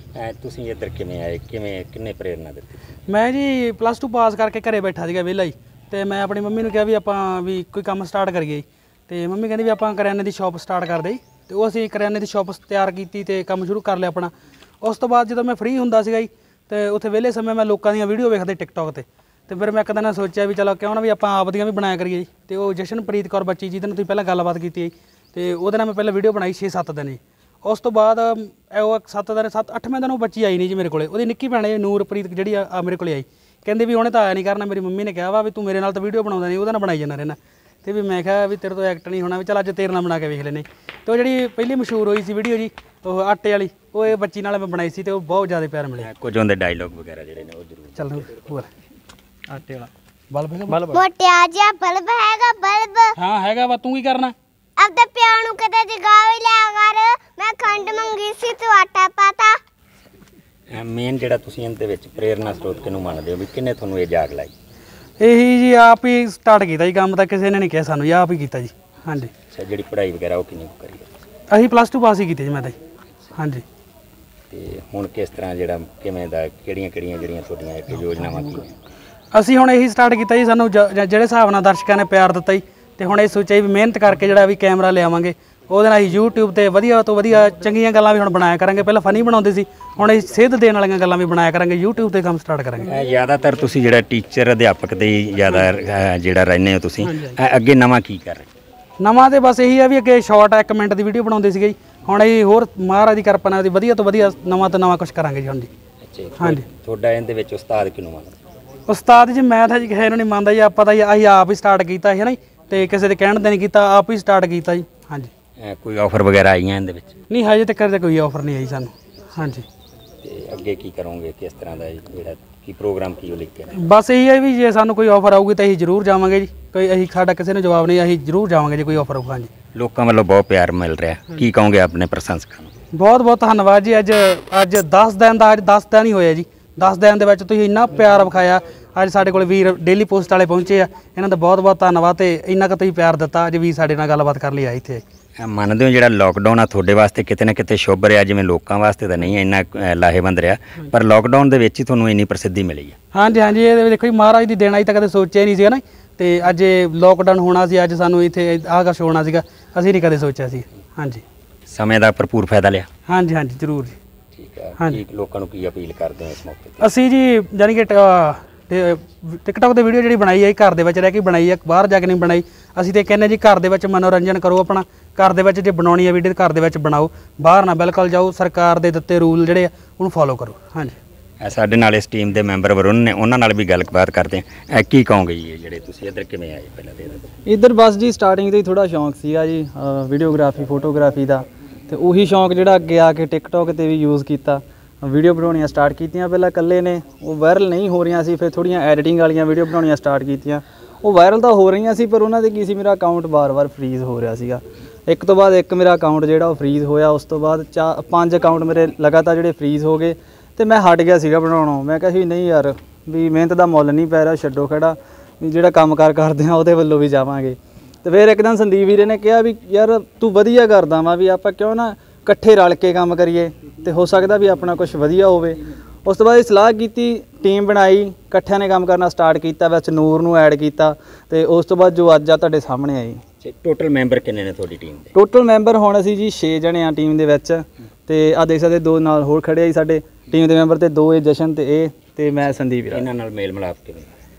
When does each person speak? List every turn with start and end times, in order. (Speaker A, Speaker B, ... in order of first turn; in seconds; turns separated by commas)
Speaker A: 0.1-2.8, Speaker B: 3.1-46.1, Speaker A: 46.0-48.4, Speaker B: 48.0-48.7, Speaker C: 49.5-49.9, Speaker B: 50.3-51.0, Speaker D: 50.9-53.1, Speaker B: 53.2-54.3, Speaker D: 54.8-59.6, Speaker A: 60.7-64.5, Speaker B: 65.2-69.3, Speaker A: 69.5-71.2, Speaker B: 71.5-72.8, Speaker B: 73.4-73.6, Speaker A: 74.5-78.8, Speaker B: 79.3-92.9, Speaker A: 92.8-98.5, Speaker B: 97.0-97.4, Speaker B: 99.0-105.7, Speaker A: 106.0-108.4, Speaker B: 108.9-115.3, Speaker A: 115.6-117.2, Speaker B: 117.3-119.6, Speaker A: 120.2-123.7, Speaker B: 123.8-129.5, Speaker A: 129.8-132.7, Speaker B: 132.9-145.0, Speaker A: 145.4-153.0, Speaker B: 153.1-161.2, Speaker A: 161.7-162.9, Speaker B: 163.1-163.9, Speaker A: 164.3-166.9, Speaker B: 166.8-181.0, Speaker A: 181.4-187.3, Speaker C: 187.5-233.2, Speaker A: 233.4-235.1, Speaker C: 235.2-243.0, Speaker A: 242.9-244.1